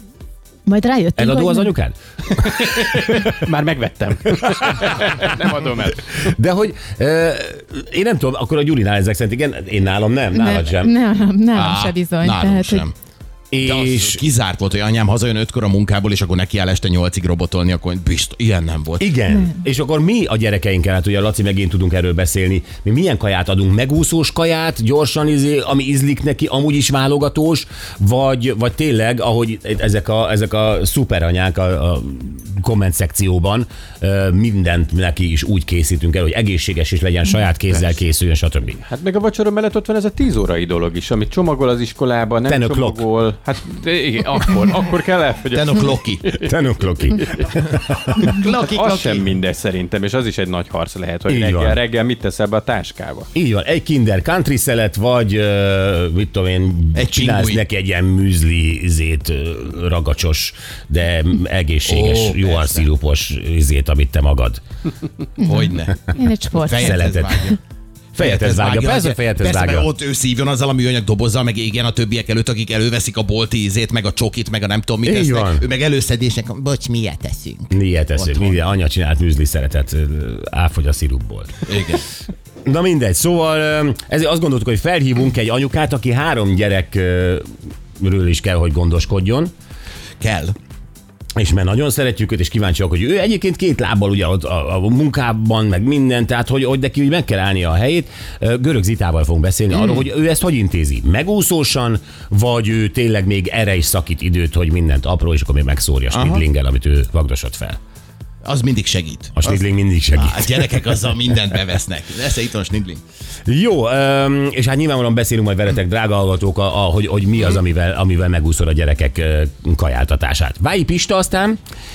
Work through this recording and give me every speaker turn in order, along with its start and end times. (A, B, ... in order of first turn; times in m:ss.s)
0:00.6-0:01.7 A
0:01.2-0:03.3 B
0:02.3-0:06.3 C
0:04.4-0:04.9 B
0:06.0-0:10.9 B
0:10.3-0:12.9 A
0:11.5-0:12.9 D
0:13.5-0:14.2 B
0:13.6-0:19.1 D
0:19.0-0:38.8 B
0:19.3-0:19.6 A
0:38.8-0:46.5 C
0:42.4-0:43.0 B
0:45.5-0:46.3 D
0:46.4-0:48.3 B
0:48.2-0:49.3 D
0:48.6-0:53.3 C
0:51.3-0:51.8 B
0:53.3-1:04.6 B
0:56.9-0:57.6 D
1:01.8-1:02.8 D
1:05.4-1:07.1 A
1:05.4-1:07.6 D
1:06.7-1:07.4 B
1:08.2-1:09.9 B
1:08.2-1:18.6 D
1:15.0-1:15.6 B
1:17.7-1:21.6 B
1:21.6-1:22.0 D
1:22.6-1:27.5 B
1:28.0-1:29.5 B
1:30.2-1:30.5 D
1:31.4-1:47.8 B
1:39.7-1:40.0 D
1:46.1-1:46.4 D
1:48.4-1:53.0 D
1:49.3-1:50.7 B
1:53.4-2:01.6 B